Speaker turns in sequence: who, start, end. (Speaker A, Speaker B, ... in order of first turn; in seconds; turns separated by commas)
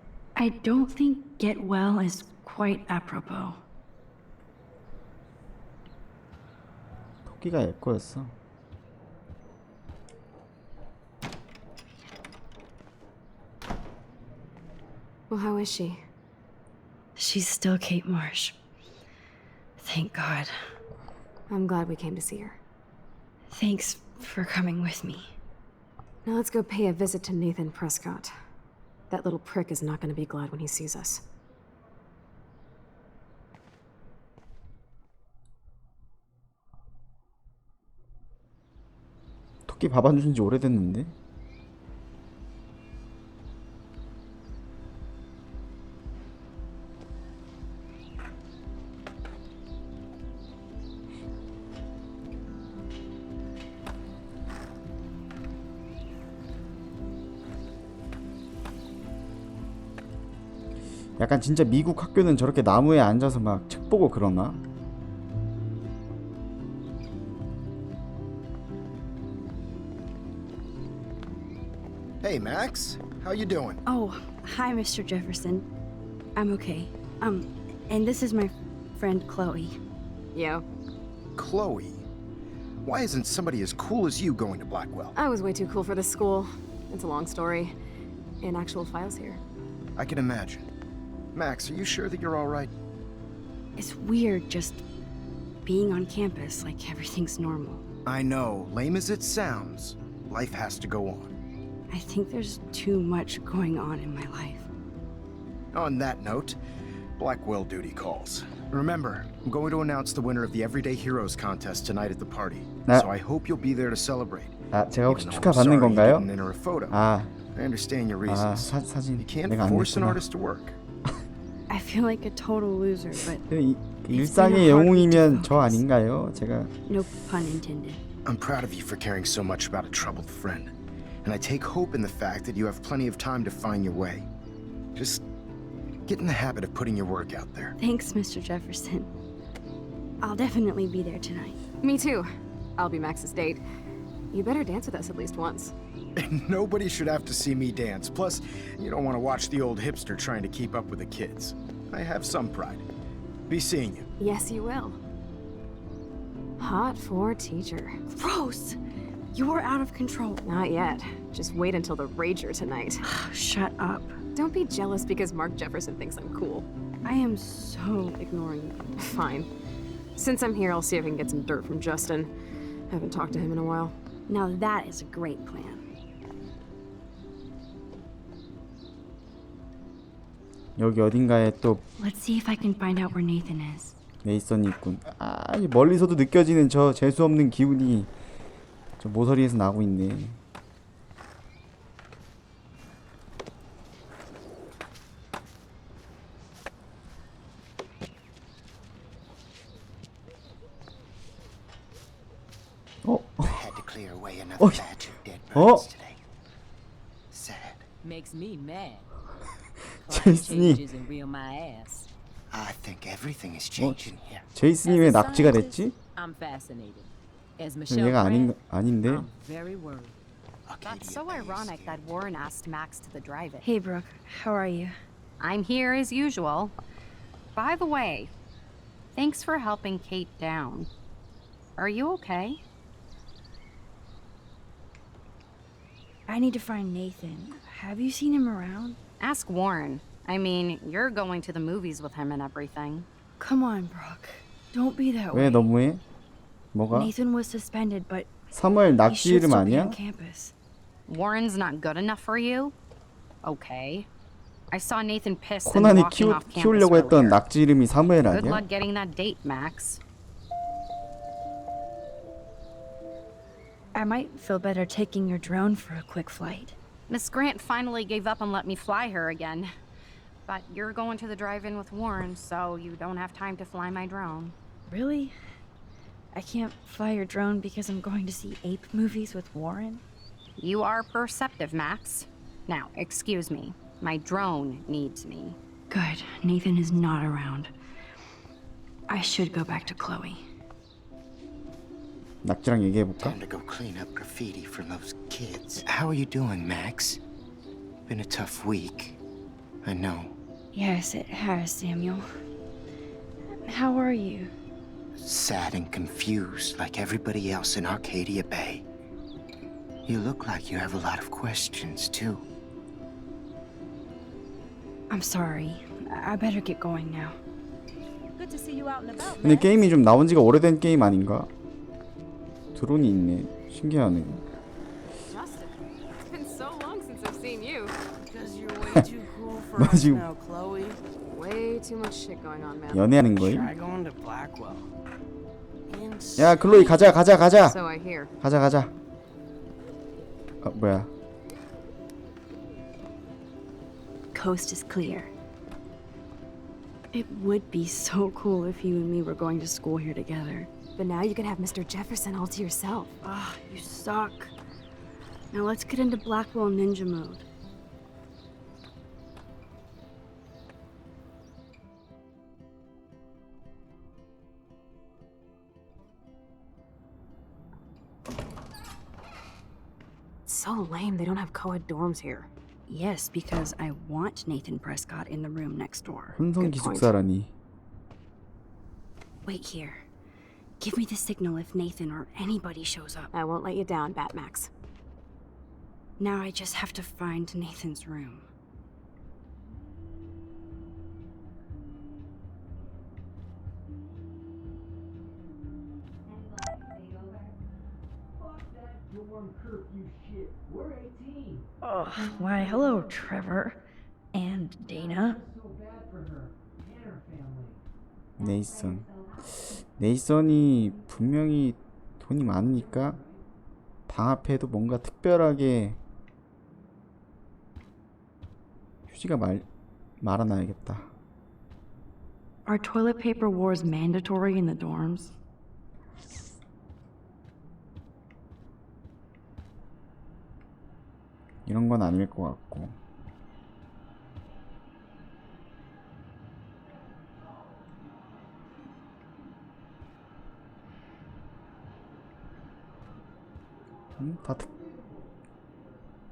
Speaker A: 0.4-3.6, Speaker B: 7.2-8.3, Speaker C: 15.3-16.0, Speaker A: 17.2-18.6, Speaker A: 19.8-20.5, Speaker C: 21.5-22.6, Speaker A: 23.5-25.4, Speaker C: 26.2-28.3, Speaker C: 29.1-31.2, Speaker B: 39.7-41.1, Speaker B: 61.2-64.6, Speaker D: 72.2-73.8, Speaker A: 73.9-75.7, Speaker A: 76.4-79.8, Speaker C: 80.3-80.6, Speaker D: 81.4-82.0, Speaker D: 82.8-85.2, Speaker C: 85.2-87.7, Speaker C: 88.4-89.4, Speaker D: 90.0-90.7, Speaker D: 91.3-92.7, Speaker A: 93.8-94.8, Speaker A: 95.7-97.8, Speaker D: 98.1-101.3, Speaker A: 101.9-104.7, Speaker D: 105.7-106.6, Speaker D: 107.2-117.0, Speaker B: 114.7-116.3, Speaker B: 116.9-117.3, Speaker D: 117.5-120.8, Speaker B: 118.2-120.2, Speaker A: 121.7-123.5, Speaker B: 123.5-126.7, Speaker A: 124.1-125.8, Speaker A: 126.9-128.1, Speaker D: 128.3-134.3, Speaker D: 134.9-135.2, Speaker D: 136.1-137.8, Speaker A: 137.8-139.1, Speaker A: 140.2-141.6, Speaker C: 141.8-143.6, Speaker C: 144.3-145.7, Speaker D: 146.2-152.8, Speaker D: 153.5-154.1, Speaker C: 154.2-155.0, Speaker C: 156.6-158.0, Speaker A: 158.1-158.8, Speaker A: 159.3-160.5, Speaker C: 160.4-163.0, Speaker A: 163.0-164.2, Speaker C: 164.3-166.7, Speaker A: 167.0-168.9, Speaker C: 168.9-169.5, Speaker C: 170.2-172.3, Speaker C: 172.9-174.0, Speaker A: 174.3-175.8, Speaker B: 180.8-181.8, Speaker A: 182.0-184.0, Speaker B: 184.2-188.1, Speaker B: 189.0-190.4, Speaker B: 203.0-203.7, Speaker E: 203.4-206.2, Speaker B: 204.6-205.9, Speaker E: 207.3-207.9, Speaker F: 208.0-209.1, Speaker F: 210.0-212.1, Speaker B: 210.1-210.8, Speaker E: 212.5-214.5, Speaker B: 213.8-216.0, Speaker F: 214.8-220.2, Speaker B: 217.9-219.3, Speaker E: 220.7-222.2, Speaker G: 220.8-223.7, Speaker A: 223.6-224.9, Speaker G: 225.4-226.7, Speaker G: 227.6-228.3, Speaker G: 229.2-230.9, Speaker G: 231.8-232.6, Speaker A: 236.3-239.0, Speaker G: 239.2-243.1, Speaker A: 243.4-245.7, Speaker B: 245.3-246.0, Speaker B: 246.7-247.1, Speaker A: 246.9-248.3, Speaker B: 248.5-250.0, Speaker A: 249.1-250.5, Speaker G: 251.1-252.8, Speaker G: 253.4-254.1, Speaker G: 254.7-257.4, Speaker B: 255.7-258.6, Speaker G: 258.3-260.0, Speaker A: 263.9-266.8, Speaker G: 267.1-269.7, Speaker G: 270.5-274.6, Speaker A: 274.9-275.4, Speaker A: 276.3-280.0, Speaker G: 280.6-285.6, Speaker A: 285.9-287.7, Speaker A: 289.1-290.4, Speaker B: 292.4-293.4, Speaker E: 293.2-297.2, Speaker E: 298.1-299.2, Speaker E: 299.8-300.4, Speaker A: 300.7-302.3, Speaker A: 303.6-304.5, Speaker E: 305.1-308.9, Speaker E: 310.1-312.4, Speaker A: 315.1-317.4, Speaker B: 319.4-321.5, Speaker B: 322.8-324.4, Speaker C: 325.3-328.0, Speaker H: 328.2-331.0, Speaker B: 329.8-330.3, Speaker C: 331.3-333.1, Speaker B: 332.9-333.7, Speaker H: 333.4-334.9, Speaker H: 335.9-337.1, Speaker B: 336.4-337.8, Speaker C: 337.6-338.3, Speaker B: 338.4-338.9, Speaker B: 340.6-341.1, Speaker A: 344.3-345.3, Speaker A: 347.1-350.7, Speaker C: 351.0-353.2, Speaker A: 353.2-354.5, Speaker A: 355.5-357.4, Speaker C: 370.5-372.5, Speaker A: 372.9-376.4, Speaker B: 376.4-377.5, Speaker C: 376.6-377.1, Speaker A: 379.4-380.1, Speaker A: 380.8-383.3, Speaker C: 383.3-384.7, Speaker A: 386.2-388.5, Speaker A: 401.8-403.8, Speaker A: 404.3-405.4, Speaker B: 408.4-413.2, Speaker B: 414.1-416.0, Speaker B: 419.1-419.7, Speaker B: 420.2-421.1, Speaker A: 422.7-425.4, Speaker B: 431.7-433.0, Speaker B: 444.2-444.7